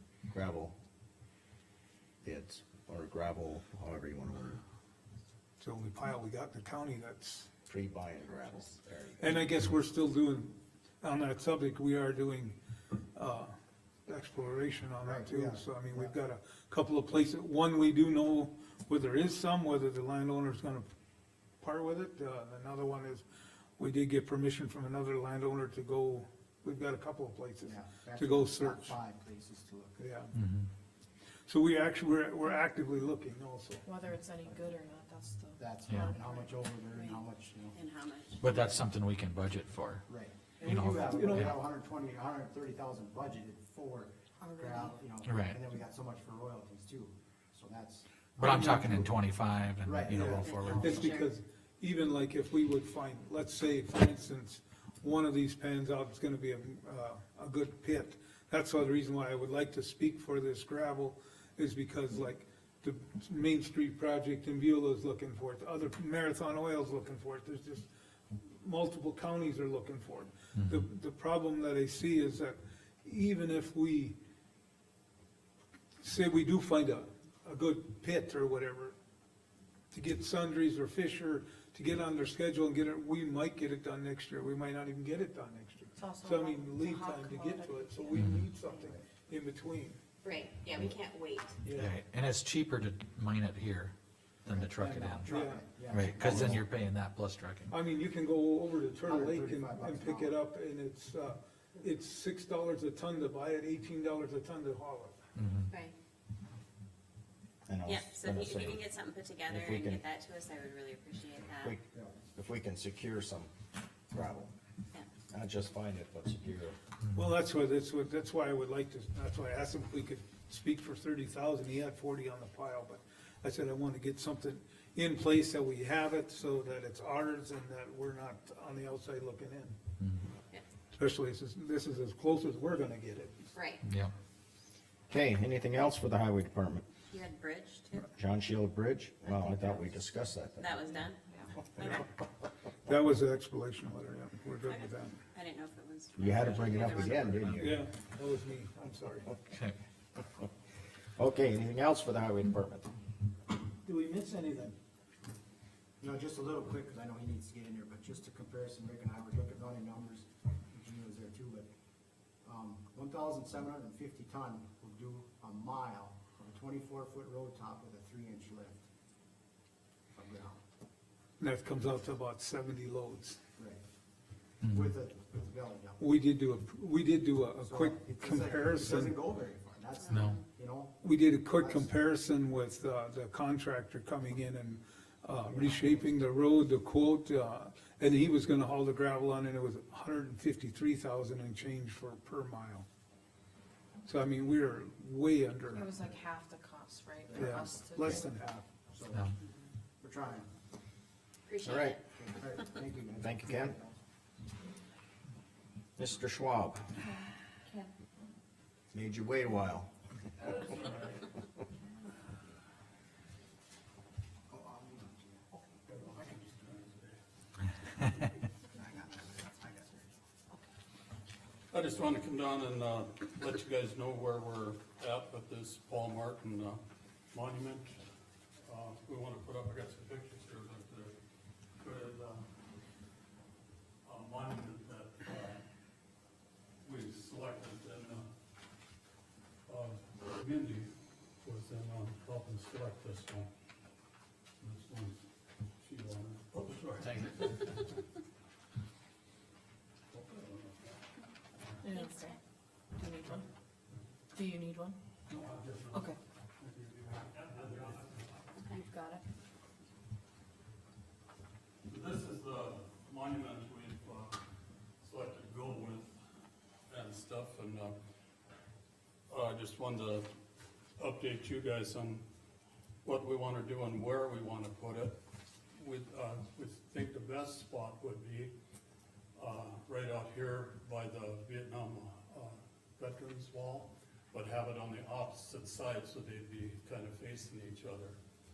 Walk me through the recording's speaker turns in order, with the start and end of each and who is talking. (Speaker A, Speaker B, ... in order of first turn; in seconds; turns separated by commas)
Speaker A: 0.3-0.7, Speaker A: 2.2-4.6, Speaker B: 5.6-7.5, Speaker A: 7.7-9.3, Speaker B: 9.2-12.6, Speaker B: 13.1-13.5, Speaker B: 14.1-20.9, Speaker C: 15.0-16.1, Speaker B: 21.6-23.2, Speaker B: 23.8-29.0, Speaker C: 27.6-30.0, Speaker B: 30.0-30.4, Speaker D: 30.3-30.7, Speaker B: 31.5-33.8, Speaker E: 33.8-36.3, Speaker C: 35.6-37.8, Speaker D: 35.9-36.1, Speaker E: 36.9-37.2, Speaker F: 37.7-38.7, Speaker D: 38.4-40.0, Speaker C: 40.0-49.1, Speaker D: 40.6-41.6, Speaker B: 41.0-41.6, Speaker E: 44.4-45.0, Speaker D: 45.2-45.6, Speaker D: 48.4-50.9, Speaker B: 48.4-49.1, Speaker C: 49.8-51.1, Speaker B: 50.0-74.2, Speaker F: 50.4-51.3, Speaker B: 76.0-79.0, Speaker B: 79.9-90.0, Speaker E: 86.0-88.7, Speaker D: 88.1-88.4, Speaker F: 90.2-91.6, Speaker B: 91.6-91.9, Speaker D: 91.7-93.9, Speaker D: 94.4-95.4, Speaker C: 94.5-96.7, Speaker B: 95.2-95.6, Speaker D: 95.9-97.7, Speaker B: 97.7-105.2, Speaker C: 99.0-100.4, Speaker D: 105.3-105.7, Speaker F: 105.7-105.9, Speaker A: 107.7-108.9, Speaker F: 107.8-111.8, Speaker A: 109.4-110.0, Speaker A: 111.6-113.5, Speaker A: 114.1-114.5, Speaker A: 115.3-116.8, Speaker B: 117.1-129.8, Speaker B: 130.9-133.4, Speaker F: 133.5-133.8, Speaker D: 133.8-134.1, Speaker A: 135.1-136.8, Speaker F: 137.1-138.1, Speaker A: 138.1-140.9, Speaker F: 139.2-139.9, Speaker F: 140.6-142.1, Speaker B: 142.8-145.2, Speaker F: 144.6-147.7, Speaker A: 146.2-147.8, Speaker B: 147.5-149.3, Speaker D: 149.5-149.7, Speaker A: 151.2-152.9, Speaker B: 153.8-154.8, Speaker C: 156.0-161.7, Speaker C: 162.4-168.8, Speaker C: 170.1-170.6, Speaker B: 171.4-173.4, Speaker C: 173.6-173.8, Speaker D: 174.6-174.9, Speaker C: 174.6-176.1, Speaker B: 176.0-179.2, Speaker C: 177.6-181.9, Speaker F: 180.0-180.4, Speaker D: 180.1-180.3, Speaker B: 181.0-192.8, Speaker C: 185.4-186.1, Speaker B: 194.1-196.0, Speaker E: 195.7-198.2, Speaker C: 197.2-199.3, Speaker B: 197.3-198.6, Speaker C: 200.0-200.5, Speaker F: 201.5-202.0, Speaker A: 201.6-202.0, Speaker C: 202.1-203.9, Speaker A: 203.2-203.8, Speaker A: 206.0-206.9, Speaker E: 207.0-207.9, Speaker A: 208.9-209.9, Speaker C: 214.5-216.8, Speaker G: 216.0-217.1, Speaker C: 218.7-220.1, Speaker G: 221.7-228.0, Speaker G: 228.6-231.1, Speaker G: 231.8-232.5, Speaker G: 234.0-235.6, Speaker G: 236.8-238.3, Speaker G: 239.7-243.5, Speaker G: 244.6-245.2, Speaker G: 245.8-247.9, Speaker D: 247.0-247.3, Speaker G: 250.1-251.0, Speaker E: 251.8-252.4, Speaker F: 251.9-252.3, Speaker E: 252.9-253.4, Speaker E: 254.3-255.0, Speaker G: 255.3-258.5, Speaker E: 258.7-259.2, Speaker G: 261.8-264.4, Speaker G: 265.0-266.2, Speaker G: 266.9-267.9, Speaker G: 269.3-270.3, Speaker G: 271.0-272.2, Speaker G: 273.0-275.2, Speaker G: 275.7-278.5, Speaker G: 279.3-288.1